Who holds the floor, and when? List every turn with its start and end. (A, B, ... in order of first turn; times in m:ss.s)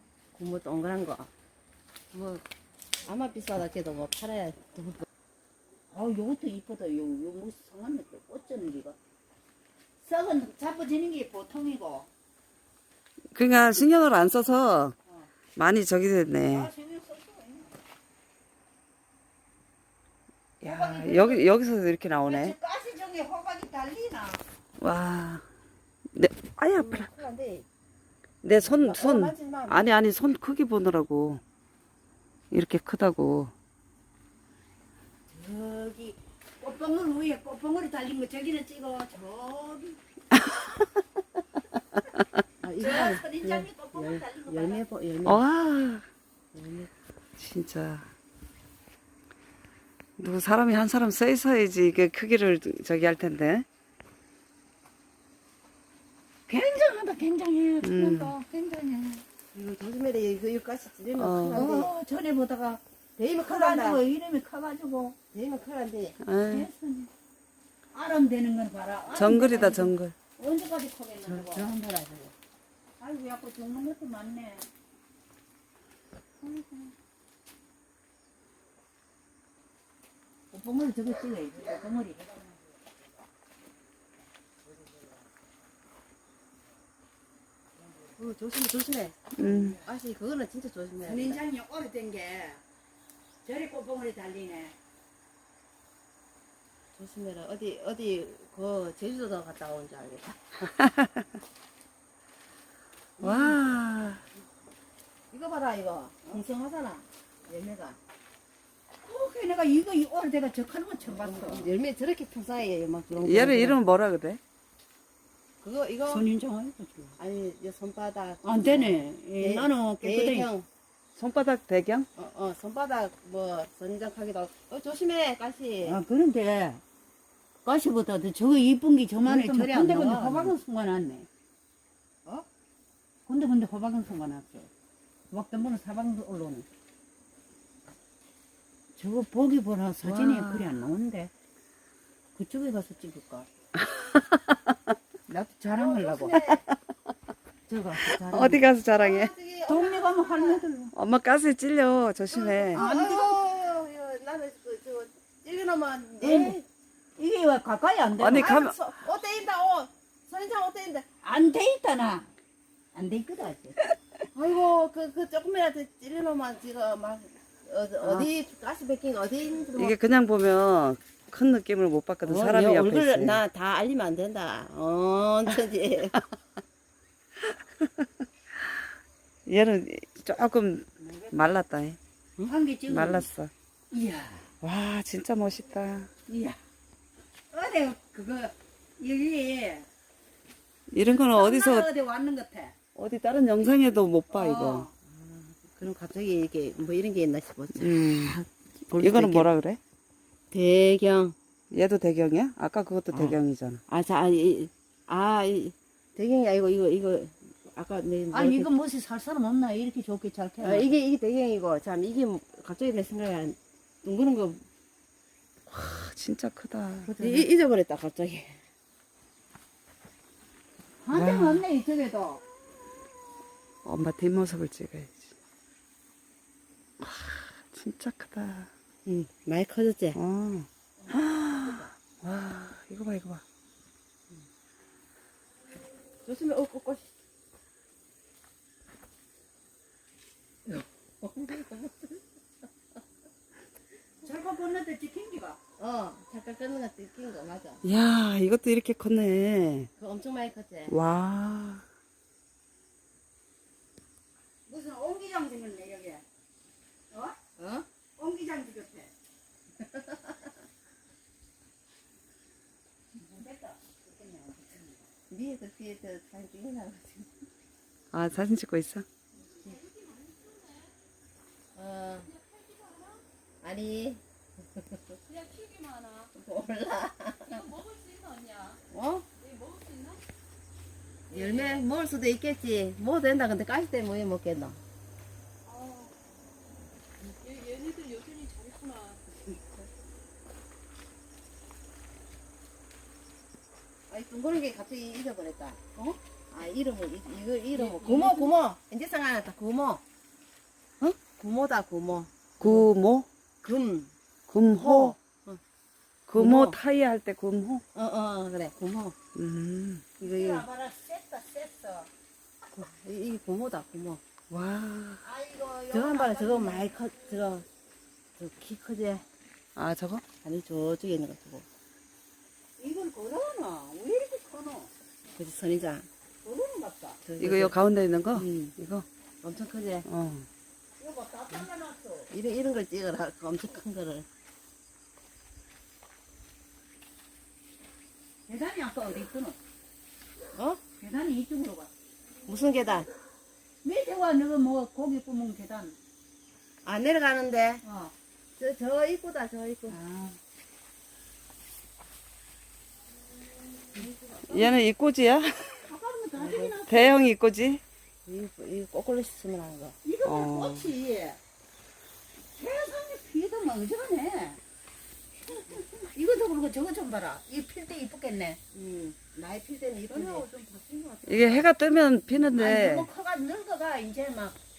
0:00.4-0:01.3 A
0:02.1-0:02.4 A
0:03.0-0:05.1 A
0:05.9-0:09.0 B
0:10.0-0:12.1 B
0:13.3-0:15.0 C
0:15.6-0:16.7 C
0:16.5-0:17.8 B
0:20.6-0:22.6 C
0:20.6-0:21.5 B
0:22.2-0:24.4 B
0:24.8-0:25.4 C
0:26.1-0:27.1 C
0:26.7-0:27.7 A
0:28.4-0:31.4 C
0:28.6-0:29.8 A
0:32.5-0:33.5 C
0:35.3-0:40.0 B
0:42.6-0:45.4 A
0:42.8-0:44.8 B
0:45.2-0:46.0 C
0:46.5-0:46.9 A
0:47.4-0:48.1 C
0:50.2-0:53.7 C
0:56.5-0:59.2 B
0:57.8-0:58.3 C
0:59.5-1:02.0 A
1:01.2-1:01.8 C
1:01.5-1:02.8 B
1:03.2-1:04.0 A
1:03.4-1:05.2 B
1:05.3-1:06.2 A
1:06.2-1:06.7 C
1:06.4-1:07.1 B
1:07.9-1:11.7 B
1:09.1-1:10.2 C
1:11.2-1:12.3 A
1:13.0-1:14.7 B
1:16.4-1:16.9 B
1:20.5-1:22.4 B
1:28.2-1:31.4 A
1:29.4-1:29.8 C
1:29.4-1:29.8 B
1:31.0-1:32.6 B
1:33.4-1:34.8 B
1:37.0-1:40.7 A
1:40.8-1:41.2 C
1:43.2-1:44.2 C
1:43.2-1:43.6 B
1:45.3-1:48.0 A
1:49.0-1:51.7 B
1:51.1-1:53.8 A
1:53.2-1:54.4 C
1:55.6-1:56.3 A
1:56.1-1:57.2 B
1:57.2-2:00.7 A
1:58.4-2:00.5 B
2:01.2-2:02.1 C
2:02.2-2:06.0 A
2:05.8-2:06.8 B
2:07.6-2:11.3 B
2:09.3-2:10.5 A
2:13.3-2:14.7 B
2:15.3-2:16.7 B
2:19.0-2:21.3 B
2:20.0-2:20.7 C
2:22.4-2:23.5 B
2:24.0-2:24.6 C
2:25.3-2:26.5 B
2:25.7-2:26.6 A
2:27.7-2:28.7 B
2:28.2-2:29.3 C
2:29.0-2:30.6 A
2:29.7-2:30.9 B
2:30.9-2:32.8 C
2:32.3-2:36.6 A
2:32.7-2:33.4 B
2:36.2-2:36.6 B
2:37.2-2:38.5 B
2:38.2-2:38.8 C
2:38.4-2:41.1 A
2:41.2-2:42.3 B
2:42.9-2:43.8 B
2:44.3-2:50.0 A
2:48.0-2:48.3 C
2:49.8-2:53.4 C
2:52.2-2:56.2 A
2:57.4-2:58.8 C
2:59.5-3:02.0 C
3:01.0-3:01.4 B
3:02.4-3:03.3 B
3:02.9-3:03.5 C
3:03.9-3:04.5 B
3:04.6-3:06.1 C
3:06.3-3:06.6 B
3:07.5-3:09.9 B
3:10.9-3:11.9 C
3:11.0-3:12.8 B
3:13.0-3:14.9 C
3:14.3-3:14.9 B
3:15.1-3:19.5 A
3:17.8-3:18.4 C
3:19.0-3:19.8 C
3:20.5-3:21.4 A
3:21.7-3:23.8 C
3:23.1-3:28.7 A
3:28.3-3:30.9 B
3:30.6-3:34.6 A
3:35.7-3:37.1 C
3:37.1-3:37.5 B
3:37.2-3:38.6 A
3:41.0-3:42.4 B
3:41.1-3:41.6 C
3:43.8-3:45.3 C
3:47.0-3:48.7 C
3:49.1-3:50.2 A
3:50.2-3:53.4 C
3:51.1-3:51.9 B
3:56.2-3:57.2 A
4:00.7-4:02.2 A
4:04.2-4:05.6 B
4:05.8-4:07.8 A
4:07.8-4:09.9 C
4:10.0-4:11.0 A
4:10.9-4:11.8 C
4:14.7-4:16.2 B
4:17.1-4:17.4 B
4:17.6-4:17.9 A
4:18.2-4:19.1 B
4:19.8-4:20.3 A
4:23.2-4:25.1 B
4:25.3-4:27.5 A
4:28.1-4:29.1 C
4:31.8-4:32.3 A
4:32.6-4:33.1 D
4:33.6-4:34.2 A
4:34.8-4:35.2 A
4:35.3-4:36.3 D
4:36.4-4:37.7 A
4:37.5-4:38.8 D
4:38.9-4:39.3 A
4:39.4-4:40.2 D
4:41.3-4:44.8 A
4:41.3-4:41.8 D
4:45.7-4:46.2 D
4:47.2-4:49.2 D
4:54.1-4:55.8 A
4:56.5-5:00.0 A
4:57.8-4:58.5 D
5:01.0-5:02.9 A
5:02.6-5:03.3 C
5:03.6-5:04.1 A
5:04.5-5:05.2 C
5:04.8-5:05.6 A
5:06.3-5:07.8 C
5:06.4-5:06.8 A
5:07.9-5:09.2 A
5:09.4-5:10.1 C
5:10.2-5:12.1 B
5:10.2-5:10.7 A
5:12.7-5:14.2 A
5:14.5-5:15.2 C
5:15.2-5:16.9 B
5:15.9-5:17.7 A
5:18.4-5:19.2 A
5:19.8-5:20.2 C
5:20.4-5:21.6 A
5:22.8-5:24.9 B
5:25.4-5:26.1 A
5:26.4-5:27.2 B
5:27.2-5:27.8 A
5:27.4-5:29.1 C
5:28.3-5:28.7 A
5:29.4-5:30.1 A
5:30.0-5:30.5 C
5:31.0-5:32.3 B
5:32.3-5:34.3 A
5:38.5-5:39.6 B
5:40.6-5:40.8 A
5:41.0-5:41.9 B
5:42.5-5:43.1 A
5:43.8-5:46.0 B
5:46.8-5:47.8 A
5:47.8-5:48.1 B
5:48.6-5:50.0 A
5:49.9-5:50.4 B
5:54.0-5:54.8 B
5:54.5-5:55.9 C
5:55.8-5:57.2 B
5:56.4-5:56.8 A
5:56.9-5:57.8 C
5:58.3-6:00.0 A
6:00.0-6:01.4 B
6:00.2-6:00.9 C
6:02.6-6:04.6 B
6:05.5-6:08.6 B
6:08.7-6:10.5 A
6:10.1-6:11.7 B
6:11.3-6:13.1 C
6:12.5-6:14.6 B